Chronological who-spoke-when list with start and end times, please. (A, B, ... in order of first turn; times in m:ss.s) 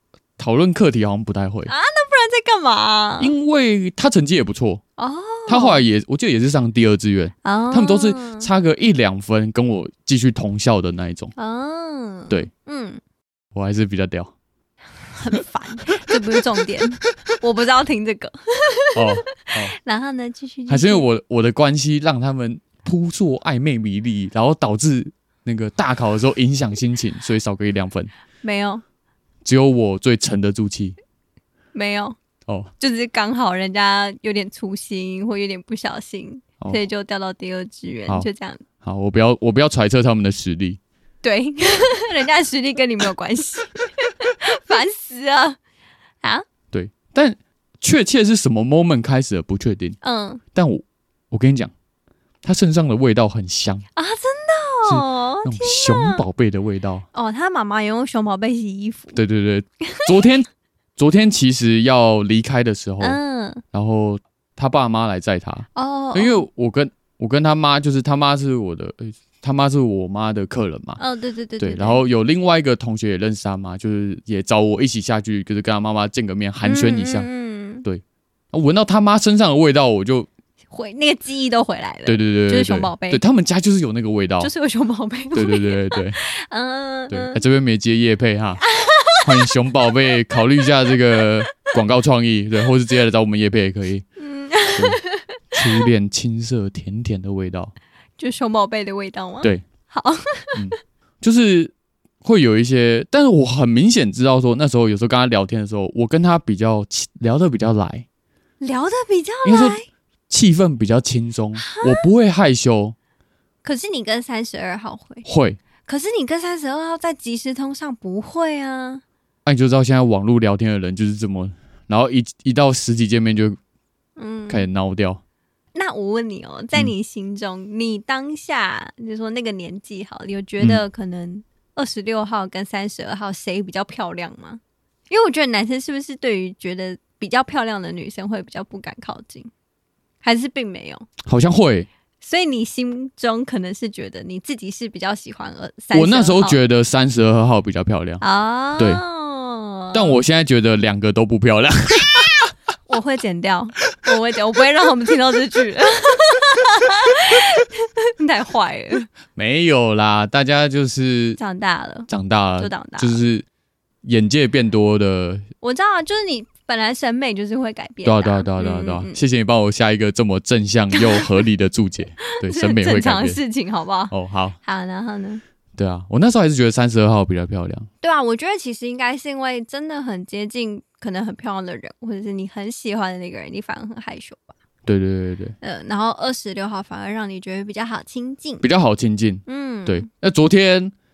0:00.4-0:01.7 A
0:01.7-0:03.3 B
0:03.2-0:04.8 A
0:05.0-0:05.8 B
0:05.5-0:11.3 A
0:07.4-0:08.5 B
0:11.4-0:13.0 B
0:13.5-0:14.3 A
0:15.1-0:21.0 B
0:18.9-0:19.7 A
0:20.7-0:28.1 A
0:28.4-0:28.8 B
0:29.4-0:31.0 A
0:31.7-0:32.2 B
0:32.8-0:38.6 B
0:38.8-0:40.8 A
0:41.2-0:45.6 B
0:46.7-0:50.0 A
0:50.0-0:50.4 B
0:50.5-0:51.7 A
0:52.4-0:53.8 A
0:54.0-0:56.2 B
0:54.8-0:57.0 A
0:57.1-0:59.2 B
0:59.1-1:03.2 A
1:03.0-1:03.6 B
1:03.7-1:11.0 A
1:05.7-1:06.4 B
1:11.0-1:12.0 B
1:11.6-1:17.3 A
1:16.6-1:17.8 B
1:17.8-1:20.3 A
1:20.7-1:23.2 B
1:22.0-1:24.5 A
1:24.4-1:27.4 B
1:25.3-1:26.2 A
1:27.1-1:28.6 A
1:28.6-1:29.8 B
1:29.2-1:34.0 A
1:34.2-1:35.6 B
1:34.7-1:35.0 A
1:35.5-1:37.7 A
1:38.2-1:40.7 B
1:40.5-1:48.0 A
1:48.6-1:49.8 B
1:49.4-1:49.8 A
1:50.3-1:52.9 A
1:51.6-1:52.0 B
1:53.6-1:55.2 B
1:55.2-1:55.6 A
1:55.8-1:59.0 B
1:59.4-2:03.6 A
2:04.2-2:04.7 B
2:04.5-2:05.2 A
2:05.7-2:19.5 B
2:20.2-2:21.1 B
2:21.2-2:21.9 A
2:22.2-2:26.6 B
2:25.9-2:28.2 A
2:28.2-2:30.2 B
2:28.8-2:29.0 A
2:29.9-2:32.5 A
2:32.9-2:39.1 B
2:39.4-2:41.4 A
2:41.4-2:43.2 B
2:42.1-2:43.4 A
2:44.0-2:45.4 A
2:45.6-2:49.2 B
2:48.0-2:53.4 A
2:50.9-2:51.3 B
2:52.4-2:54.1 B
2:54.1-2:54.6 A
2:54.6-2:55.4 B
2:55.8-2:57.9 A
2:58.0-3:04.5 B
3:04.8-3:05.6 A
3:05.6-3:08.6 B
3:08.6-3:10.9 A
3:09.5-3:10.1 B